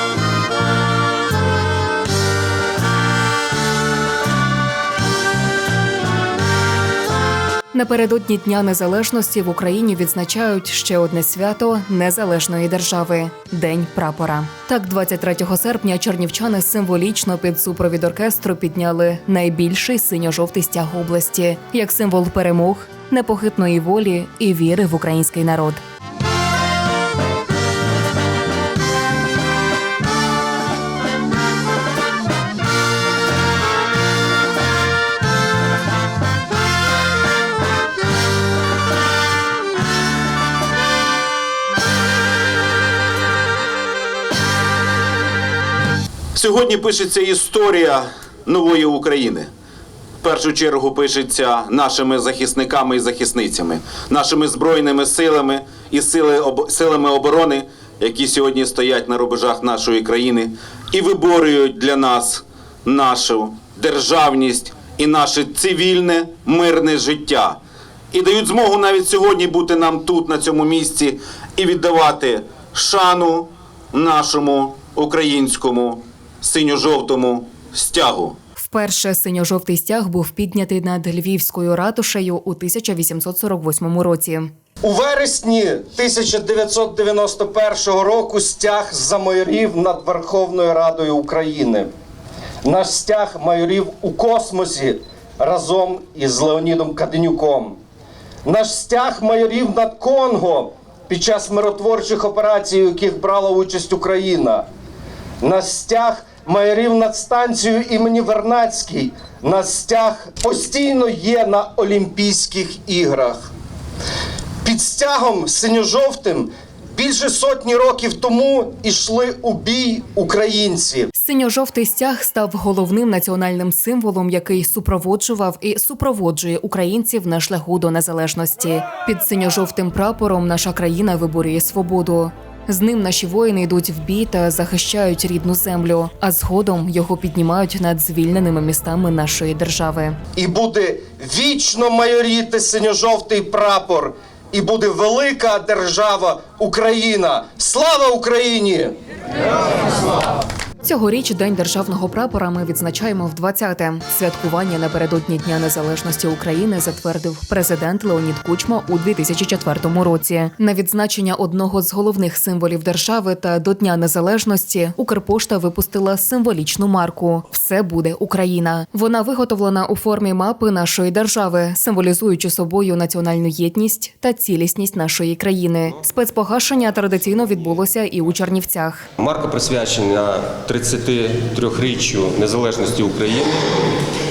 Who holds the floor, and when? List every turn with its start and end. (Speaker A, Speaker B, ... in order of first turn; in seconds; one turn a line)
Speaker A: 7.7-25.8
Speaker B: 46.4-49.5
Speaker B: 50.2-67.6
Speaker B: 68.1-78.3
Speaker A: 78.6-84.5
Speaker C: 84.8-91.9
Speaker C: 92.6-97.8
Speaker C: 98.4-104.7
Speaker C: 105.4-113.5
Speaker C: 114.6-121.1
Speaker A: 121.1-140.2
Speaker C: 140.3-148.9
Speaker A: 150.8-179.1
Speaker D: 179.2-183.7